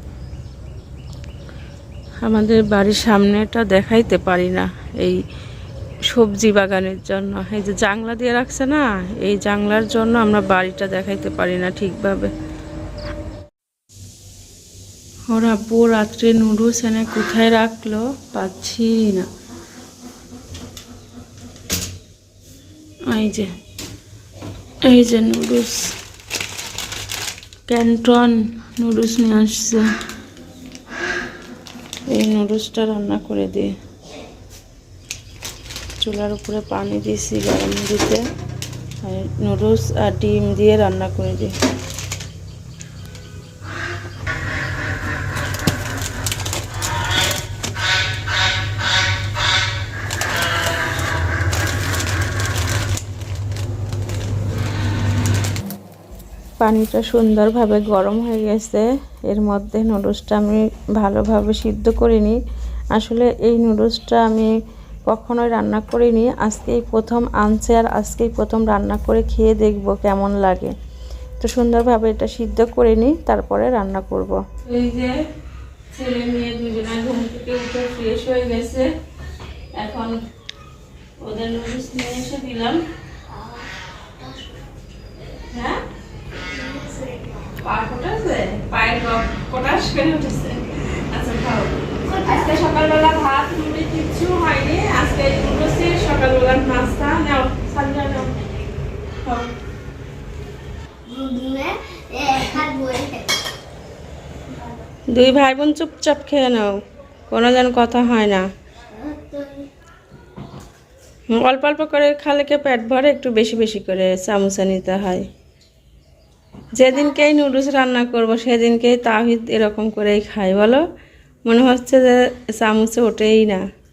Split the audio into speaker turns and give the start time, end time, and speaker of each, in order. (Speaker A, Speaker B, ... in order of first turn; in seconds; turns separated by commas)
Speaker A: 2.2-5.2, Speaker A: 6.1-12.3, Speaker A: 15.3-19.3, Speaker A: 23.1-23.5, Speaker A: 24.8-25.9, Speaker A: 27.7-29.9, Speaker A: 32.1-33.8, Speaker A: 36.0-38.2, Speaker A: 39.0-41.5, Speaker A: 56.6-62.4, Speaker A: 62.9-64.5, Speaker A: 65.1-70.7, Speaker A: 71.4-75.1, Speaker A: 75.9-78.9, Speaker A: 79.8-80.1, Speaker A: 81.2-82.8, Speaker B: 83.3-83.7, Speaker B: 84.2-84.5, Speaker A: 85.5-85.8, Speaker B: 86.6-87.2, Speaker A: 87.6-98.4, Speaker B: 92.1-92.6, Speaker B: 101.1-103.3, Speaker A: 105.1-106.8, Speaker A: 107.3-108.5, Speaker B: 109.0-109.6, Speaker A: 111.3-115.2, Speaker A: 116.7-120.8, Speaker A: 121.5-123.6